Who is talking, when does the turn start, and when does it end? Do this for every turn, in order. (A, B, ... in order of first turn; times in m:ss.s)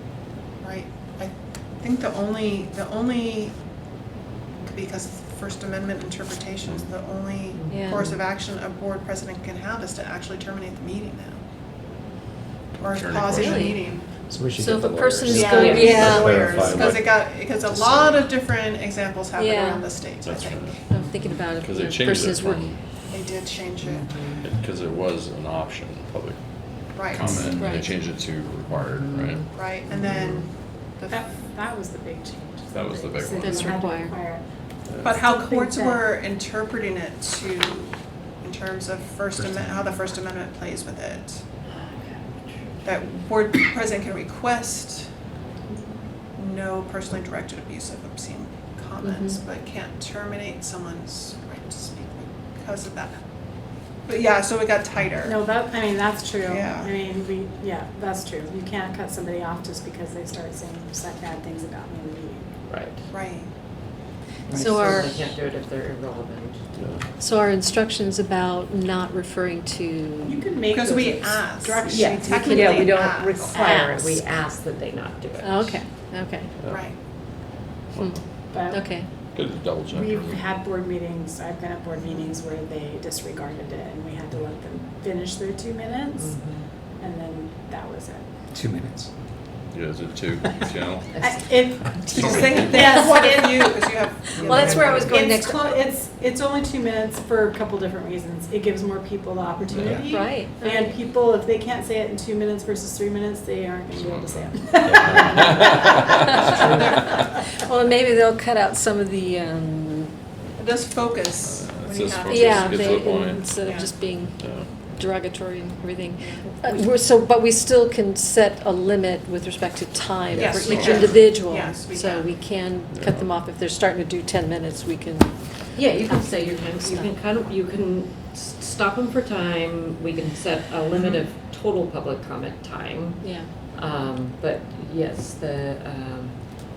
0:00.6-0:03.5 A
0:04.6-0:11.4 A
0:07.5-0:08.1 B
0:07.7-0:08.1 C
0:12.8-0:14.1 A
0:12.8-0:13.8 D
0:13.3-0:13.8 C
0:14.3-0:17.1 E
0:14.6-0:16.4 C
0:15.3-0:20.7 A
0:15.5-0:16.0 B
0:16.4-0:18.3 D
0:19.3-0:20.0 C
0:20.2-0:20.8 D
0:20.9-0:22.7 C
0:20.9-0:21.4 B
0:21.4-0:22.8 D
0:23.1-0:24.1 A
0:23.8-0:24.4 B
0:24.4-0:29.5 D
0:26.9-0:27.3 A
0:27.2-0:27.6 E
0:27.6-0:27.9 C
0:28.8-0:29.5 B
0:29.5-0:31.5 A
0:30.0-0:30.4 D
0:31.1-0:34.4 F
0:32.7-0:33.8 D
0:33.4-0:34.2 C
0:34.9-0:35.2 D
0:35.0-0:41.4 A
0:35.1-0:36.2 F
0:39.4-0:39.9 E
0:41.7-0:43.0 B
0:42.8-0:45.1 A
0:46.3-0:53.2 A
0:49.0-0:49.4 C
0:54.1-0:55.4 A
0:55.2-1:02.5 F
0:56.5-0:56.9 A
1:02.7-1:03.0 B
1:03.1-1:03.5 A
1:04.5-1:06.6 B
1:04.5-1:05.1 C
1:06.8-1:07.0 D
1:07.2-1:10.4 C
1:10.2-1:12.6 F
1:10.7-1:13.7 A
1:11.9-1:15.8 B
1:12.3-1:14.2 C
1:15.4-1:16.5 C
1:16.7-1:17.0 A
1:17.9-1:18.2 D
1:18.0-1:19.0 C
1:18.5-1:19.0 F
1:19.3-1:20.5 D
1:19.9-1:26.3 F
1:26.2-1:26.6 B
1:27.0-1:28.3 F
1:28.5-1:29.1 E
1:29.7-1:31.2 D
1:31.2-1:33.5 F
1:32.1-1:35.7 A
1:32.2-1:32.7 D
1:34.4-1:35.0 B
1:34.4-1:35.7 C
1:35.4-1:46.1 F
1:39.7-1:40.0 D
1:39.9-1:40.2 A
1:40.1-1:40.9 C
1:43.9-1:46.6 D
1:46.3-1:50.1 C
1:50.6-1:53.0 A
1:51.4-1:54.7 D
1:52.2-2:07.1 C
1:53.6-1:53.9 A
2:00.3-2:01.4 D
2:00.3-2:02.4 A
2:02.9-2:03.3 D
2:05.7-2:16.3 B
2:13.2-2:13.5 C